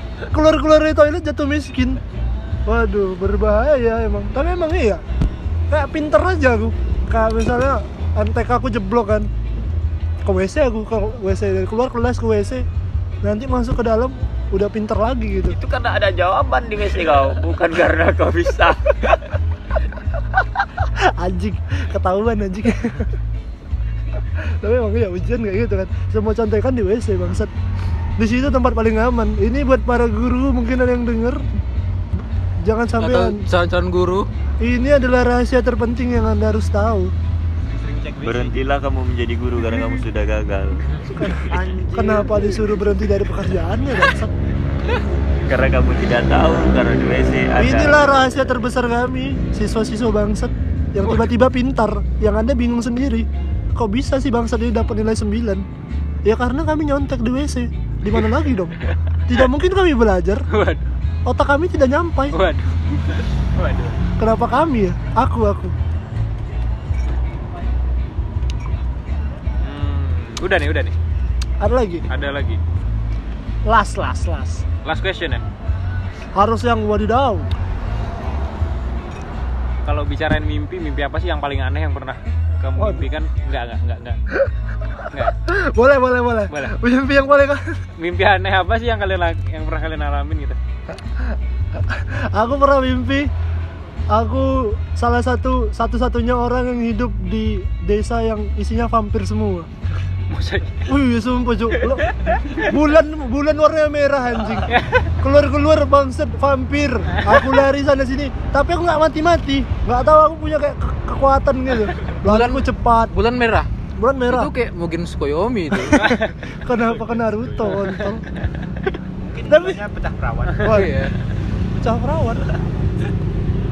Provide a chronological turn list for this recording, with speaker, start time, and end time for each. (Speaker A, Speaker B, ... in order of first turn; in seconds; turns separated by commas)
Speaker A: 0.3-2.0, Speaker A: 2.6-5.0, Speaker A: 5.7-9.3, Speaker A: 10.2-12.7, Speaker A: 13.2-15.6, Speaker B: 15.5-19.2, Speaker A: 20.8-23.1, Speaker A: 24.3-27.5, Speaker A: 28.2-31.4, Speaker A: 32.6-33.4, Speaker C: 33.0-34.3, Speaker A: 34.6-37.1, Speaker D: 37.6-38.6, Speaker B: 38.2-40.9, Speaker A: 41.1-44.3, Speaker D: 41.5-42.8, Speaker B: 45.5-48.6, Speaker A: 47.6-55.6, Speaker A: 56.2-60.5, Speaker E: 60.5-60.9, Speaker A: 61.2-62.4, Speaker E: 62.3-64.0, Speaker A: 64.2-65.7, Speaker E: 69.6-71.0, Speaker A: 71.6-72.0, Speaker E: 72.1-72.6, Speaker A: 73.7-74.6, Speaker E: 74.8-75.4, Speaker A: 76.3-77.5, Speaker E: 79.8-84.2, Speaker A: 82.8-83.1, Speaker E: 85.1-85.3, Speaker A: 85.4-87.6, Speaker E: 88.0-90.6, Speaker A: 90.9-93.3, Speaker A: 94.1-99.7, Speaker E: 100.3-100.8, Speaker A: 100.9-113.1, Speaker E: 101.9-102.7, Speaker E: 104.7-105.1, Speaker E: 107.2-107.6, Speaker C: 112.2-113.7, Speaker A: 114.0-114.5, Speaker C: 114.3-116.1, Speaker A: 115.9-118.2, Speaker E: 116.0-116.3, Speaker E: 117.0-118.0, Speaker D: 119.3-120.8, Speaker A: 119.5-119.8, Speaker A: 120.6-121.0, Speaker C: 120.6-121.1, Speaker A: 121.7-122.4